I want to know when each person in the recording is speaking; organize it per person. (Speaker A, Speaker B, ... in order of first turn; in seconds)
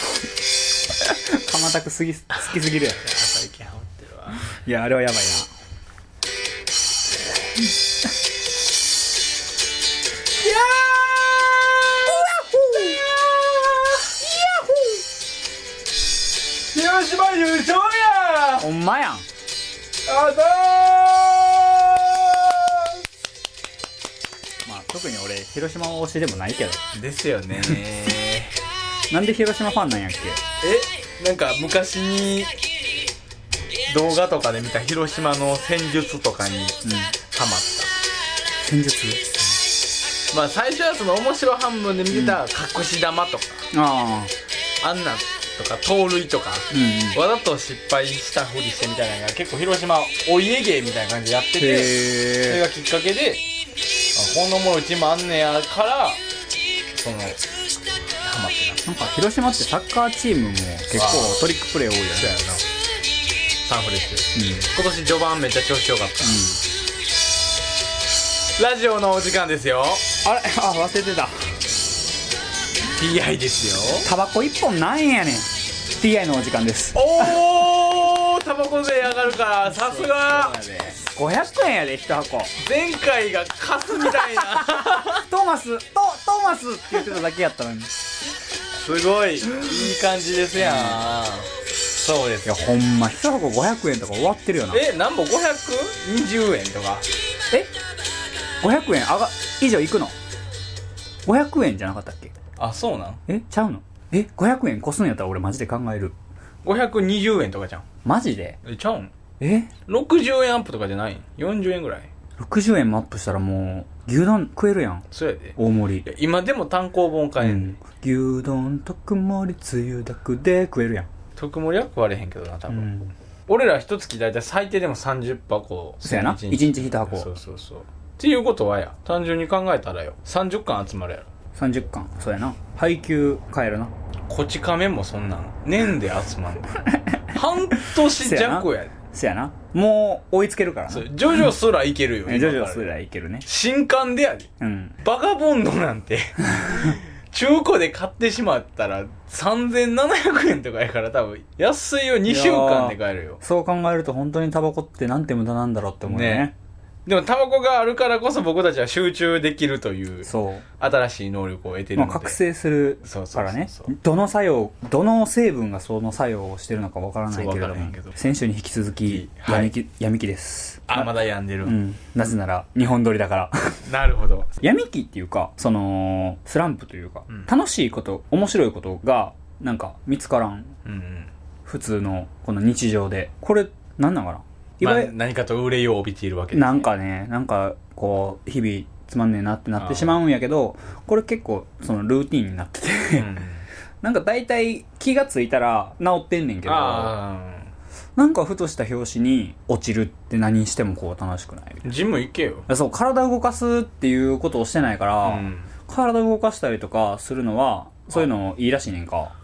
Speaker A: 1.0-3.0, 4.5-5.5, 12.1-13.0, 14.2-15.0, 18.6-19.2, 24.6-26.8, 29.1-30.4, 36.8-37.1, 38.6-39.2, 42.1-42.4, 43.7-44.3, 46.7-47.2, 51.6-52.6, 58.9-62.3, 64.4-64.6, 66.2-66.6, 70.2-71.3, 74.0-77.4, 79.7-82.5, 83.9-87.9, 90.6-91.0, 92.5-94.8, 98.6-100.1, 101.2-102.3, 103.3-106.1, 108.0-108.6, 109.4-109.7, 112.4-115.1, 115.6-116.1, 117.4-121.1, 122.7-123.1, 126.0-127.3, 131.5-133.9, 136.8-137.2, 137.8-141.4, 142.2-143.4, 144.6-145.0, 146.6-146.9, 152.3-156.5, 160.2-160.6, 161.9-171.1, 171.6-173.8, 174.6-180.7, 181.7-185.1, 186.5-193.4, 194.0-197.2, 198.2-201.8, 202.7-209.3
Speaker B: 2.6-4.5, 10.4-14.1, 16.7-18.7, 20.1-22.9, 26.9-28.6, 30.6-32.5, 33.8-38.0, 40.3-43.7, 44.8-53.5, 54.1-56.2, 56.9-57.4, 58.2-58.9, 61.0-61.5, 62.2-62.6, 63.6-66.5, 68.6-70.1, 73.0-74.1, 76.9-81.0, 82.6-85.2, 88.7-92.6, 94.7-97.0, 102.6-103.2, 106.6-107.8, 108.6-109.1, 109.9-112.1, 115.1-117.8, 121.4-122.9, 123.5-131.3, 134.3-136.7, 137.3-138.9, 140.9-142.9, 143.4-144.5, 145.0-153.4, 156.0-156.5, 157.1-162.4, 163.0-163.9, 167.3-168.2, 169.0-169.7, 170.9-171.8, 173.8-174.5, 180.8-181.3, 184.8-186.9, 189.8-190.2, 193.1-193.7, 196.6-197.7, 201.8-202.7, 205.2-205.7